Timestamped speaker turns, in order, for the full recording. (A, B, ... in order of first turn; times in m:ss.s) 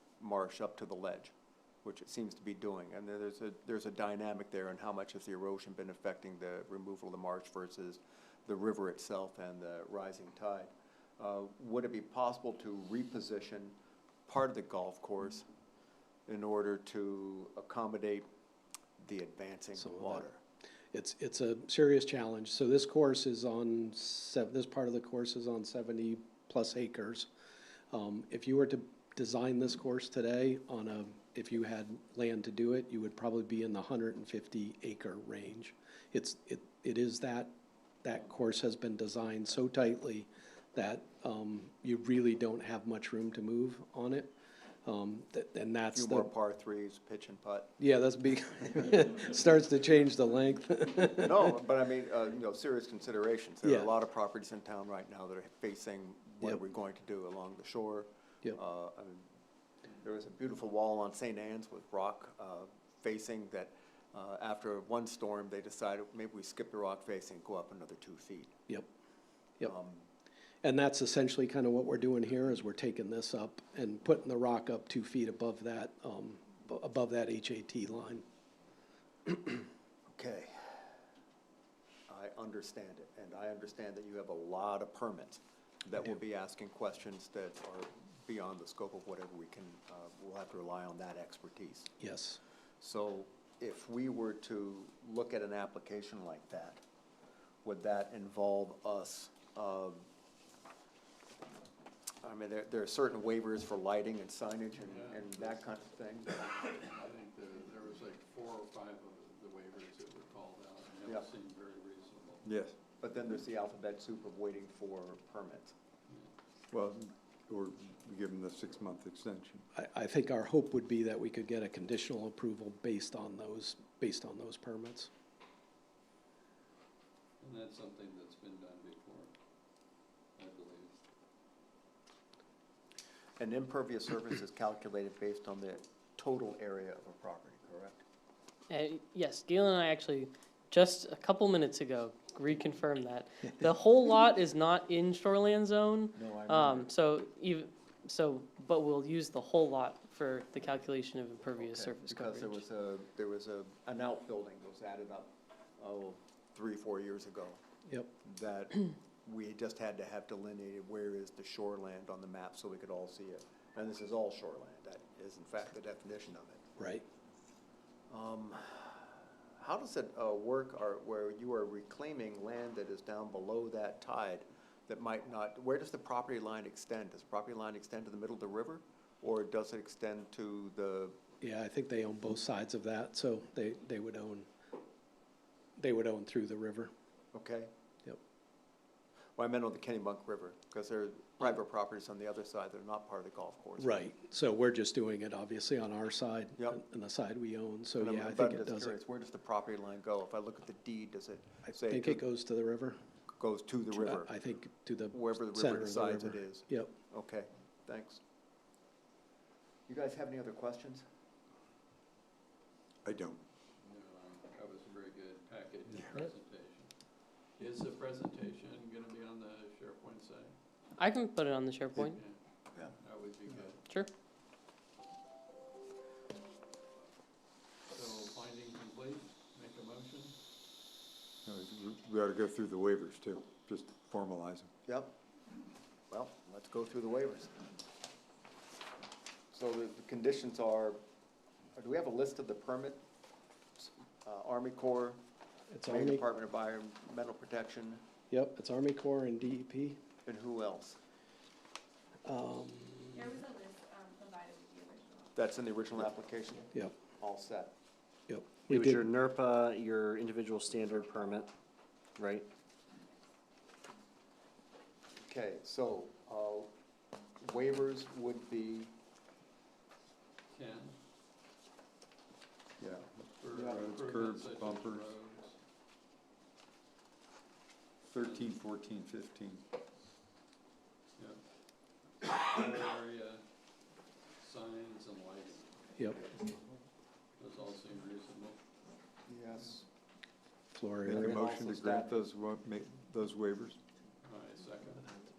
0:00.2-0:01.3 A
0:01.8-0:13.8 A
0:14.3-0:15.4 A
0:16.3-0:18.2 A
0:19.0-0:20.4 A
0:19.8-0:20.2 B
0:20.9-0:27.3 B
0:27.9-0:37.5 B
0:38.0-0:44.3 B
0:44.8-0:46.3 B
0:45.9-0:47.7 A
0:47.8-0:51.6 B
0:51.2-0:59.2 A
0:53.6-0:53.9 B
1:00.0-1:08.5 A
1:09.6-1:10.0 A
1:10.6-1:18.2 B
1:19.3-1:19.6 B
1:20.1-1:20.9 A
1:22.1-1:31.9 A
1:32.0-1:32.4 B
1:32.8-1:36.8 A
1:37.6-1:40.0 A
1:42.2-1:46.4 A
1:44.8-1:45.6 C
1:46.3-1:52.5 C
1:52.4-1:52.7 D
1:53.0-1:55.7 A
1:56.7-1:59.6 D
1:59.7-2:05.1 B
2:07.4-2:09.3 C
2:10.4-2:10.9 C
2:13.4-2:18.0 A
2:18.7-2:32.6 E
2:26.1-2:26.9 A
2:31.5-2:37.6 A
2:38.2-2:46.6 A
2:46.8-2:47.0 B
2:48.1-3:01.2 A
3:01.4-3:04.5 B
3:05.8-3:06.9 B
3:07.3-3:07.7 A
3:09.4-3:14.0 A
3:13.8-3:19.0 B
3:18.0-3:22.2 A
3:21.7-3:23.0 B
3:23.4-3:24.3 A
3:23.9-3:26.9 B
3:25.1-3:28.2 A
3:29.9-3:31.0 A
3:33.0-3:33.4 D
3:33.8-3:36.9 C
3:37.6-3:40.5 C
3:41.0-3:42.2 E
3:42.0-3:43.8 C
3:43.8-3:44.1 E
3:47.9-3:50.3 C
3:51.4-3:54.7 D
3:54.8-3:55.2 A
3:56.1-3:57.6 A
3:59.5-4:01.0 A
4:01.8-4:03.0 A
4:03.8-4:05.2 A
4:05.7-4:06.2 B
4:05.8-4:08.0 A
4:08.3-4:10.0 B
4:10.2-4:11.0 A
4:12.2-4:13.4 B
4:13.2-4:15.3 F
4:15.3-4:17.7 A
4:18.3-4:19.1 B
4:18.7-4:21.5 G
4:22.2-4:22.5 G
4:25.2-4:26.7 A
4:27.4-4:28.9 A
4:30.5-4:31.0 C
4:32.8-4:35.1 D
4:33.4-4:35.6 C
4:38.0-4:39.6 D
4:38.2-4:38.5 C
4:42.2-4:43.4 C
4:44.4-4:45.7 C
4:47.4-4:48.6 C
4:49.3-4:49.8 A
4:50.7-4:51.4 B
4:51.0-4:52.2 A
4:51.0-4:53.8 D
4:54.2-4:55.1 C